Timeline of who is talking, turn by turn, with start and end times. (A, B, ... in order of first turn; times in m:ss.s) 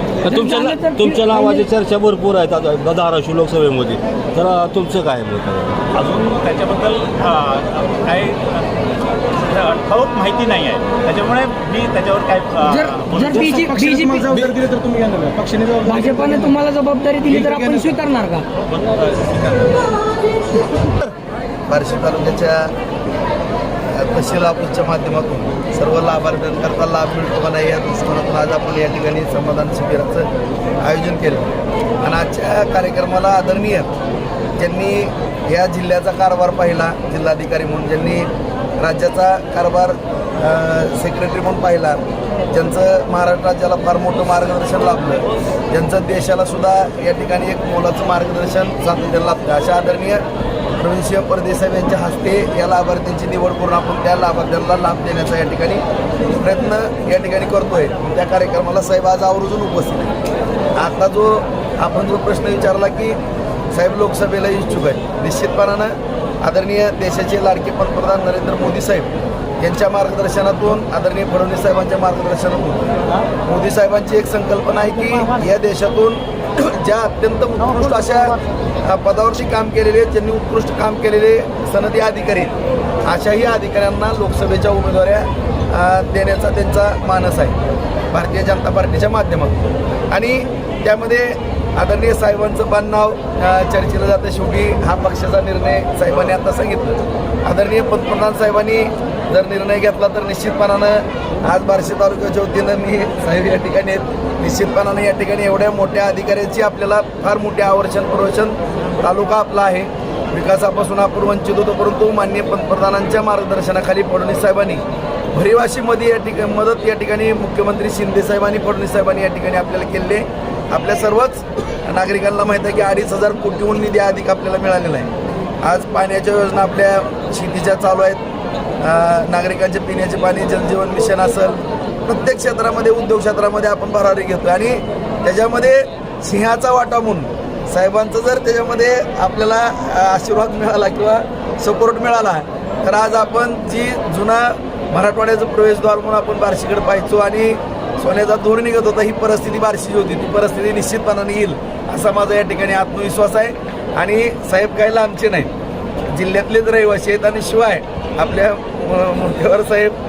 0:00.2-0:05.8 A
0:00.3-0:01.7 B
0:05.9-0:13.5 C
0:12.7-0:14.3 B
0:13.2-0:16.7 D
0:15.9-0:18.5 B
0:17.3-0:18.0 D
0:18.7-0:19.5 C
0:21.7-0:22.7 E
0:23.9-0:30.3 E
0:30.8-0:33.9 E
0:34.6-0:50.2 E
0:50.8-0:55.8 E
0:56.4-1:00.1 E
1:00.8-1:03.2 E
1:03.7-1:12.8 E
1:13.4-1:22.5 E
1:23.1-1:27.6 E
1:28.1-2:05.1 E
2:05.6-2:08.2 E
2:08.8-2:35.5 E
2:36.1-2:40.0 E